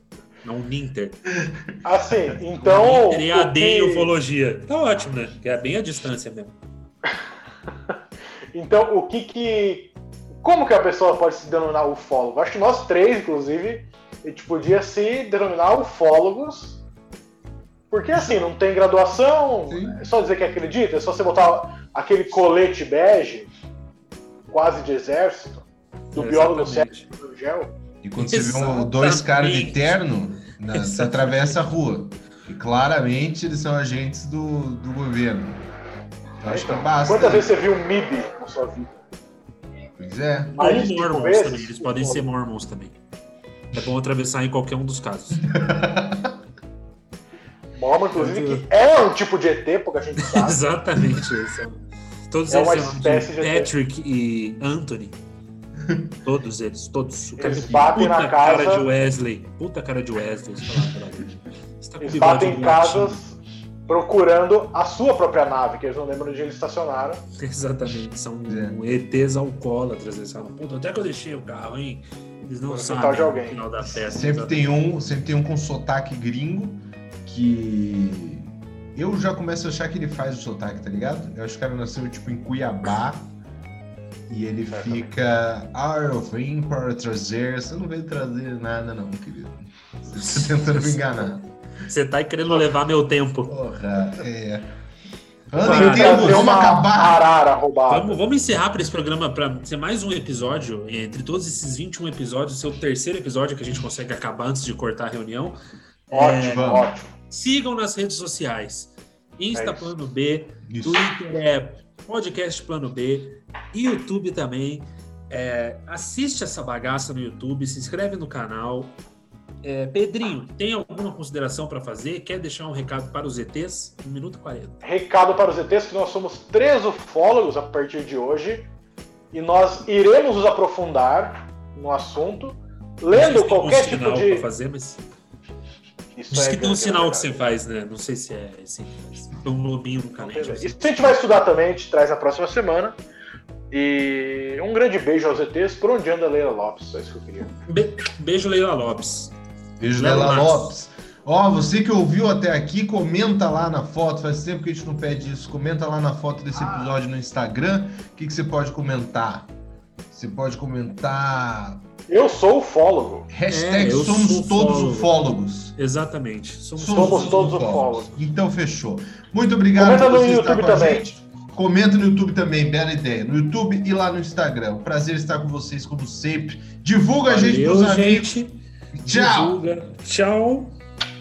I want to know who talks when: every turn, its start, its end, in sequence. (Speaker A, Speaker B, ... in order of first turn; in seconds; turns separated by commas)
Speaker A: 0.4-1.2, Speaker B: 1.4-1.7, Speaker C: 1.8-4.1, Speaker A: 2.6-6.5, Speaker C: 8.5-16.8, Speaker C: 17.9-23.5, Speaker B: 19.7-20.0, Speaker C: 24.5-27.7, Speaker A: 26.1-27.1, Speaker B: 28.0-35.7, Speaker A: 28.2-30.0, Speaker A: 30.7-31.6, Speaker B: 36.4-37.5, Speaker C: 36.5-38.9, Speaker B: 40.0-40.6, Speaker C: 40.5-42.2, Speaker A: 40.6-42.9, Speaker A: 43.7-45.5, Speaker B: 45.4-46.4, Speaker C: 47.7-50.6, Speaker A: 48.1-48.6, Speaker A: 50.2-55.2, Speaker C: 52.5-53.7, Speaker B: 55.8-56.1, Speaker A: 56.2-63.2, Speaker C: 57.4-58.9, Speaker B: 57.4-57.9, Speaker B: 60.6-60.9, Speaker C: 62.0-67.2, Speaker A: 67.4-74.8, Speaker B: 68.5-68.8, Speaker C: 72.7-73.6, Speaker B: 73.8-83.3, Speaker B: 84.3-91.4, Speaker C: 84.7-85.0, Speaker A: 90.1-91.3, Speaker A: 91.9-93.5, Speaker B: 93.5-94.7, Speaker B: 95.5-97.2, Speaker A: 95.6-96.5, Speaker C: 95.6-98.2, Speaker A: 97.9-105.6, Speaker A: 106.1-106.8, Speaker C: 106.1-107.1, Speaker B: 106.4-106.8, Speaker A: 107.3-119.0, Speaker C: 109.5-109.9, Speaker B: 110.6-111.1, Speaker A: 119.6-124.8, Speaker C: 124.8-128.7, Speaker C: 129.3-134.4, Speaker A: 133.1-135.0, Speaker C: 136.2-137.4, Speaker A: 136.3-141.2, Speaker C: 140.2-143.0, Speaker C: 143.7-147.5, Speaker A: 147.7-149.3, Speaker B: 149.8-159.5, Speaker A: 149.9-150.7, Speaker C: 156.6-156.9, Speaker B: 160.1-161.8, Speaker C: 162.1-163.3, Speaker B: 163.3-165.7, Speaker A: 163.5-165.1, Speaker A: 165.8-167.7, Speaker B: 166.8-178.4, Speaker C: 166.8-168.1, Speaker C: 169.8-171.1, Speaker A: 177.2-178.5, Speaker B: 178.9-179.6, Speaker A: 179.1-180.7